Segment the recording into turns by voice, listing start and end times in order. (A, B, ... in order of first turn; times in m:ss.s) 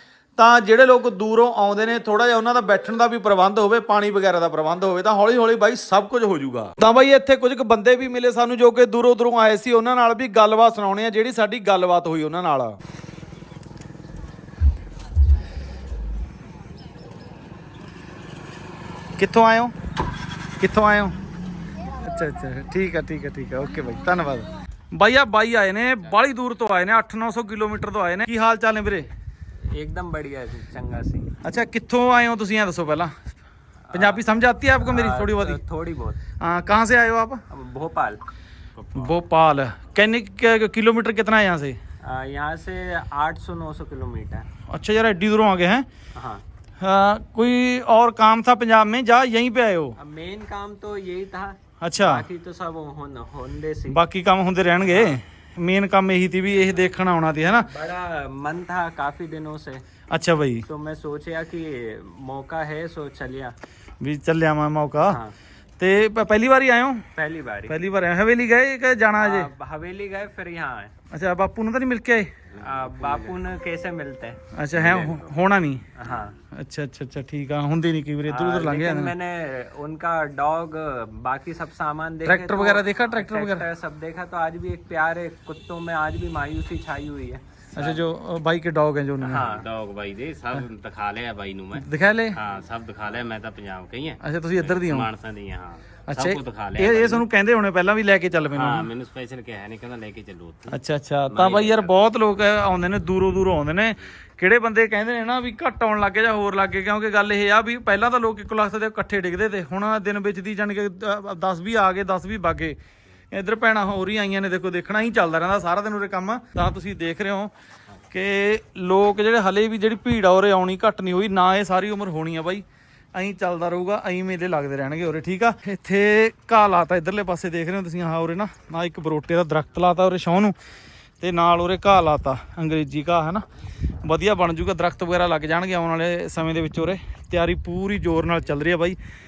0:00.4-0:12.8 A
0:19.2-0:19.7 A
0:20.6-0:21.1 A
0:21.9-0:29.1 A
0:29.7-0:31.3 B
0:31.4-0:33.1 A
0:33.9-0:34.2 B
0:33.9-0:35.6 A
0:34.8-0:36.2 B
0:36.4-0:37.4 A
0:37.5-0:38.2 B
0:38.9-0:41.8 A
0:42.0-0:44.4 B
0:44.7-0:45.9 A
0:46.1-0:46.4 B
0:46.8-0:50.0 A
0:50.0-0:54.0 B
0:51.8-0:52.2 A
0:53.9-0:57.7 A
0:54.8-0:55.2 B
0:57.6-0:59.8 B
1:00.1-1:00.6 A
1:00.6-1:03.5 B
1:04.0-1:05.2 A
1:05.0-1:05.3 B
1:05.8-1:07.0 A
1:07.1-1:07.7 B
1:07.7-1:09.5 A
1:09.2-1:10.9 B
1:11.1-1:12.3 A
1:12.6-1:15.4 B
1:12.6-1:13.3 C
1:14.5-1:15.8 A
1:16.0-1:16.4 B
1:16.5-1:19.1 A
1:18.3-1:28.1 B
1:22.2-1:23.6 A
1:27.7-1:29.4 A
1:29.2-1:29.7 B
1:29.3-1:37.2 C
1:31.7-1:32.4 A
1:34.2-1:35.1 A
1:36.1-1:38.9 A
1:38.5-1:42.0 C
1:40.7-1:52.8 A
1:53.3-1:57.5 A
1:58.1-2:10.5 A
2:11.2-2:13.4 A
2:14.0-2:19.0 A